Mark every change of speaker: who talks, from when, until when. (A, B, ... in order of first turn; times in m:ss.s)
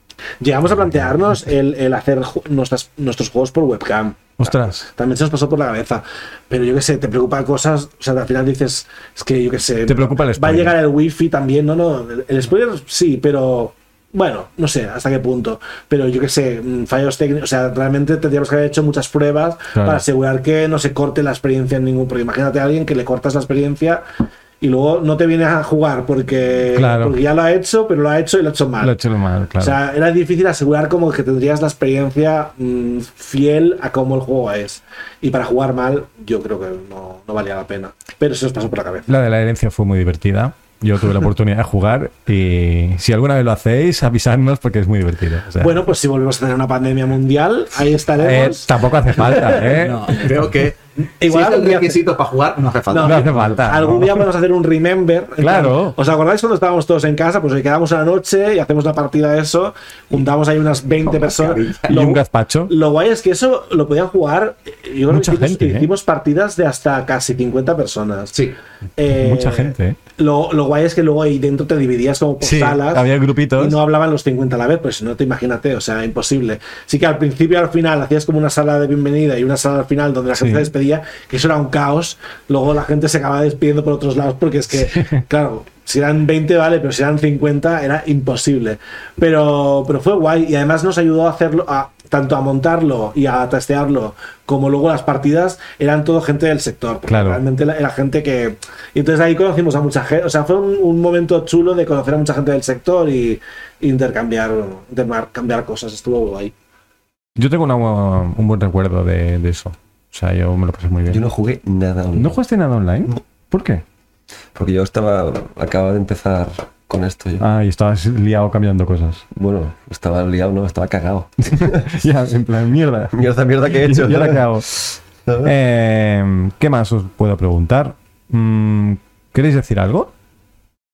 0:00.4-0:24.0 A
0:00.8-0:01.0 B
0:04.4-0:04.9 B
0:09.9-0:10.8 B
0:19.8-0:20.0 B
0:24.6-0:28.9 A
0:26.8-0:27.2 B
0:28.8-0:29.8 B
0:29.6-0:39.1 A
0:39.1-0:45.8 B
0:45.6-0:49.7 A
0:48.2-0:50.1 B
0:49.6-0:53.4 C
0:51.2-0:52.0 A
0:52.9-1:08.4 A
0:53.0-0:54.2 B
0:55.4-0:56.0 B
1:01.1-1:02.0 C
1:01.9-1:02.7 B
1:05.1-1:05.9 B
1:08.3-1:08.6 C
1:09.0-1:13.1 A
1:09.1-1:10.0 B
1:12.4-1:13.8 B
1:13.6-1:46.5 A
1:20.4-1:20.7 B
1:37.1-1:37.4 B
1:47.4-1:51.2 B
1:51.1-1:52.4 D
1:52.2-1:53.8 B
1:54.6-1:57.4 D
1:57.4-1:59.2 B
1:59.3-2:01.9 D
2:01.6-2:03.2 B
2:03.1-2:05.5 D
2:03.7-2:04.7 B
2:05.4-2:10.1 B